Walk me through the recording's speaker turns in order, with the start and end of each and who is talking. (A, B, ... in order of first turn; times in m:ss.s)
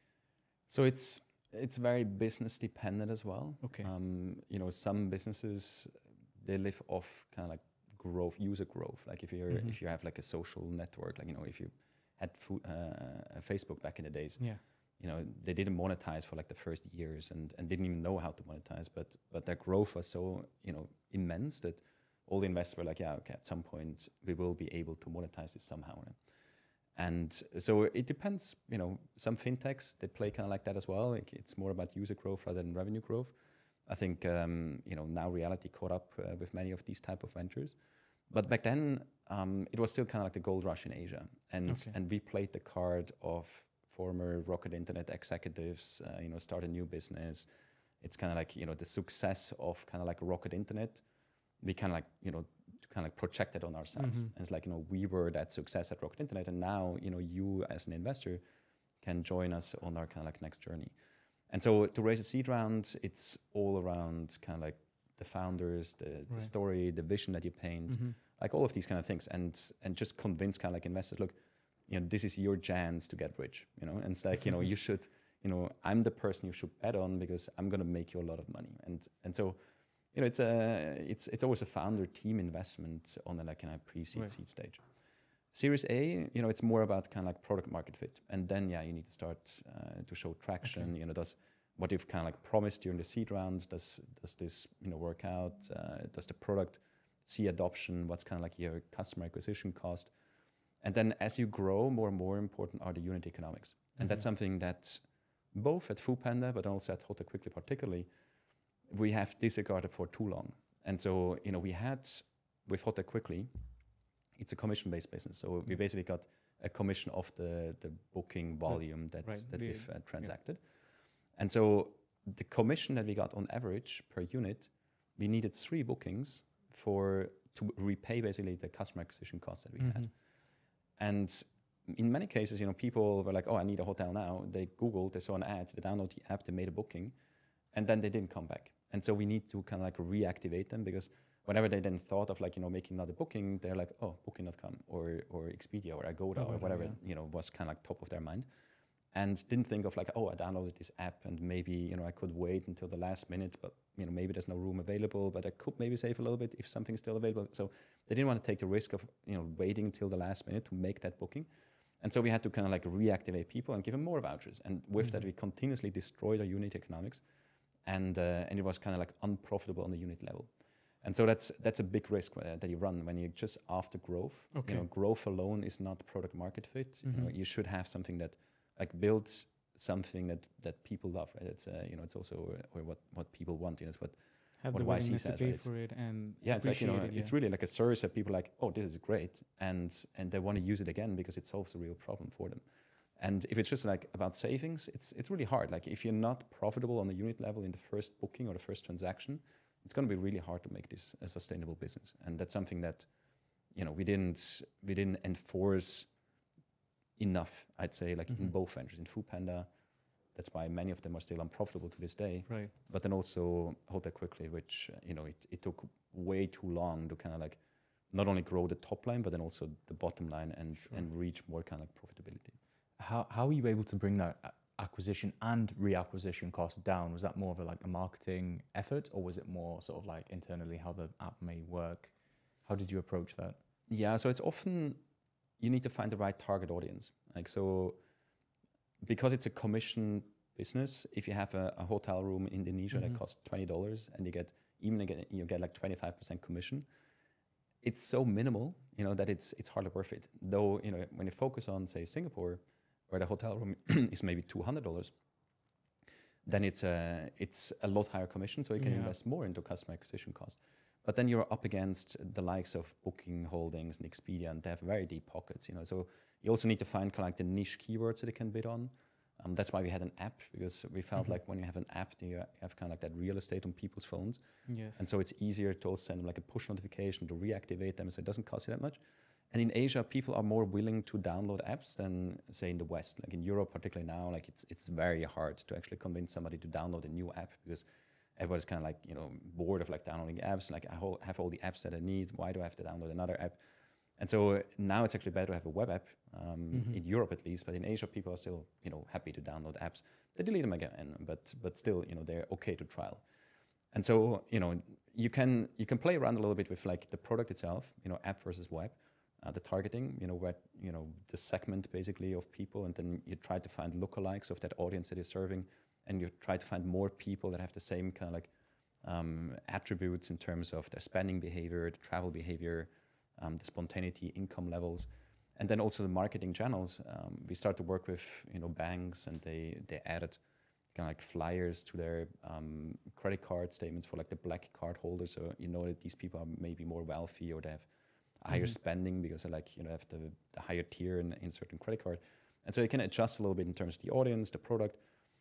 0:00.7-0:26.2 A
0:03.6-0:03.9 B
0:09.5-0:09.8 B
0:27.0-0:33.4 A
0:33.9-0:37.8 A
0:38.3-0:47.5 A
0:41.7-0:42.0 B
0:48.0-0:51.0 A
0:51.6-0:58.4 A
0:54.0-0:54.3 B
0:59.0-1:01.0 A
1:01.5-1:11.4 A
1:07.9-1:08.2 B
1:11.9-1:19.6 A
1:20.1-1:24.8 A
1:25.5-1:40.1 A
1:40.8-1:48.1 A
1:48.9-1:53.5 A
1:54.3-2:00.6 A
1:59.2-2:00.3 B
2:01.4-2:10.1 A
2:09.8-2:10.1 B
2:11.0-2:17.2 A
2:17.7-2:28.5 A
2:26.4-2:27.0 B
2:29.1-2:41.5 A
2:42.0-2:47.2 A
2:47.8-2:50.5 A
2:51.0-3:04.2 A
2:54.5-2:54.9 B
2:57.0-2:57.3 B
3:04.6-3:07.3 B
3:04.7-3:05.9 A
3:06.4-3:12.6 A
3:13.2-3:23.1 A
3:23.7-3:26.1 A
3:27.2-3:29.7 A
3:30.3-3:37.6 A
3:38.1-3:42.6 A
3:43.0-3:53.6 C
3:53.9-3:55.0 A
3:55.6-3:58.0 A
3:59.0-4:06.9 A
4:07.8-4:15.1 A
4:16.4-4:34.4 A
4:18.8-4:19.2 B
4:34.7-4:35.0 B
4:35.0-4:39.0 A
4:39.5-4:47.8 A
4:48.4-4:53.6 A
4:54.2-5:03.2 A
4:56.7-4:57.0 B
5:03.9-5:18.5 A
5:19.0-5:30.4 A
5:30.9-5:37.9 A
5:38.4-5:45.0 A